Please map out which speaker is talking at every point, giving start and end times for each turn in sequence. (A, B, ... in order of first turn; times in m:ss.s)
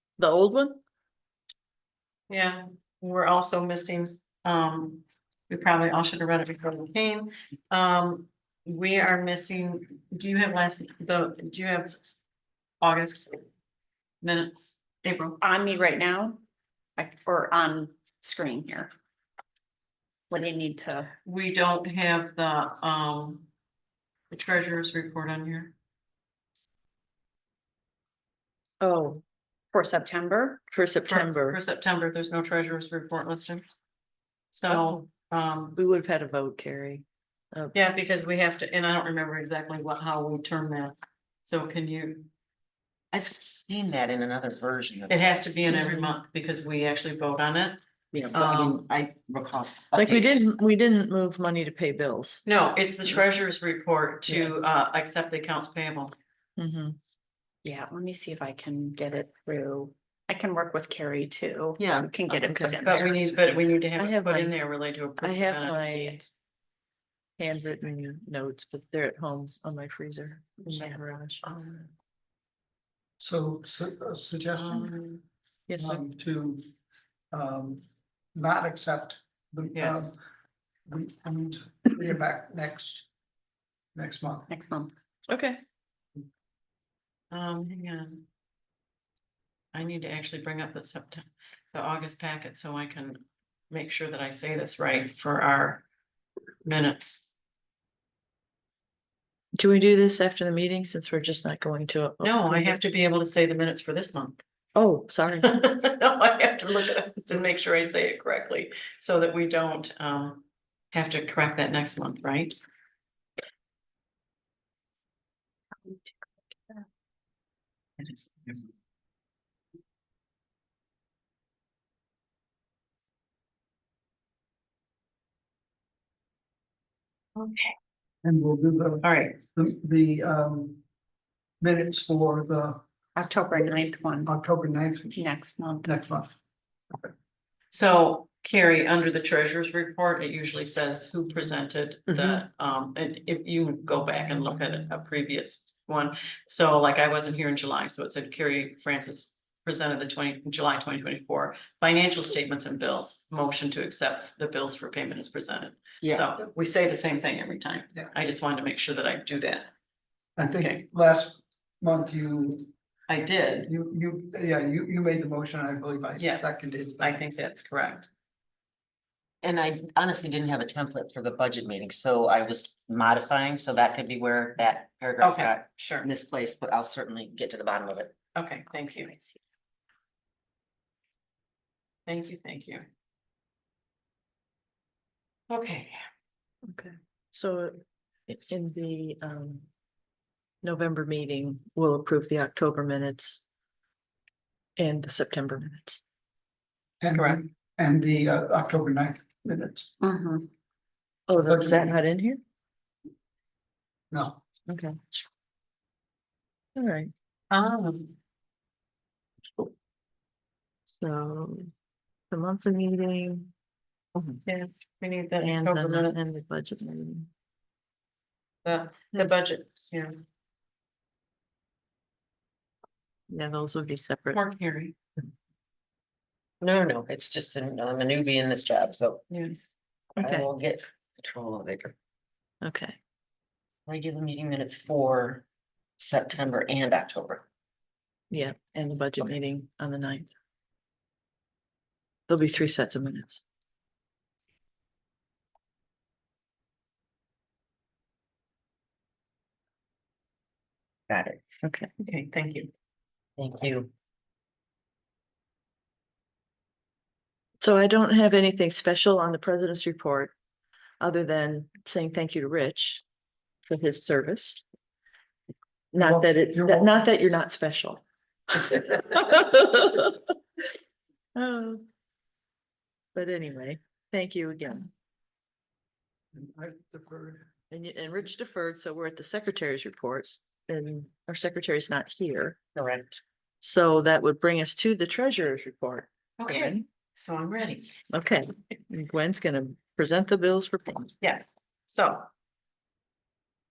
0:00.2-0:00.8 A
0:02.3-0:12.1 B
0:12.8-0:13.3 B
0:14.2-0:15.4 B
0:15.4-0:16.4 C
0:17.0-0:18.9 C
0:20.3-0:21.1 C
0:21.2-0:23.5 B
0:24.3-0:25.7 B
0:28.8-0:29.2 A
0:29.7-0:30.6 C
0:30.7-0:31.6 A
0:31.0-0:33.6 B
0:34.5-0:35.8 B
0:34.7-0:35.0 A
0:35.7-0:37.7 A
0:37.7-0:42.3 B
0:43.1-0:45.7 D
0:45.1-0:47.8 B
0:45.7-0:46.2 A
0:48.3-0:50.4 D
0:48.3-0:48.8 B
0:49.9-0:52.4 A
0:52.4-0:56.1 B
0:54.3-0:54.5 A
0:56.6-0:57.0 A
0:57.6-1:03.4 C
1:01.8-1:02.4 D
1:02.4-1:02.9 A
1:02.6-1:06.3 B
1:04.0-1:04.6 A
1:05.2-1:06.2 A
1:07.4-1:11.4 A
1:13.2-1:14.9 E
1:14.6-1:15.2 B
1:15.7-1:16.0 A
1:15.8-1:16.7 E
1:17.3-1:20.2 E
1:19.7-1:20.1 B
1:20.8-1:23.1 E
1:23.9-1:24.5 E
1:24.5-1:24.9 C
1:25.3-1:25.6 A
1:27.3-1:28.2 B
1:29.7-1:35.8 B
1:36.6-1:37.3 B
1:39.5-1:42.8 A
1:42.2-1:44.4 B
1:44.7-1:45.5 A
1:45.4-1:52.5 B
1:55.8-1:56.8 C
1:58.0-1:58.6 B
2:07.4-2:07.7 B
2:08.2-2:10.8 E
2:09.0-2:09.4 B
2:11.6-2:12.8 E
2:13.2-2:14.3 C
2:14.2-2:15.2 E
2:15.1-2:15.9 C
2:15.8-2:16.4 E
2:17.7-2:39.7 B
2:22.1-2:22.4 D
2:36.0-2:36.3 D
2:40.4-2:42.7 E
2:43.1-2:43.7 B
2:43.6-2:47.2 E
2:46.2-2:48.1 B
2:49.4-2:58.2 D
2:55.2-2:56.0 B
2:58.3-2:59.1 B
2:59.1-2:59.4 C
3:02.1-3:02.8 B
3:05.5-3:06.0 B
3:06.6-3:09.6 A
3:10.6-3:13.4 A
3:14.8-3:16.0 A
3:17.0-3:19.9 E
3:17.1-3:17.4 B
3:20.0-3:20.5 C
3:21.3-3:22.4 A
3:21.4-3:22.0 E
3:24.1-3:24.4 E
3:24.7-3:25.0 A
3:26.8-3:27.1 A
3:27.5-3:28.1 B
3:30.8-3:31.7 A
3:32.3-3:33.5 A
3:34.2-3:34.4 A
3:34.4-3:36.4 B
3:35.4-3:37.3 A
3:38.6-3:40.1 B
3:43.3-3:44.4 A
3:44.3-3:44.9 B
3:46.6-3:49.2 D
3:49.3-3:49.7 B
3:50.2-3:50.4 A
3:50.2-3:51.9 D
3:52.6-3:53.0 A
3:53.9-3:55.4 D
3:56.0-3:57.4 D
3:58.3-4:00.3 A
4:02.3-4:03.4 A
4:11.1-4:11.4 D
4:11.6-4:11.9 A
4:12.0-4:12.7 B
4:13.4-4:13.9 D
4:17.6-4:20.3 A
4:21.0-4:23.0 A
4:23.7-4:24.6 A
4:25.9-4:30.4 A
4:26.0-4:27.0 E
4:31.3-4:31.8 A
4:33.1-4:34.9 A
4:36.3-4:37.5 E
4:37.7-4:42.6 A
4:42.8-4:43.2 D
4:43.6-4:46.8 A
4:46.4-4:47.9 B
4:48.1-4:51.1 A
4:51.2-4:52.3 B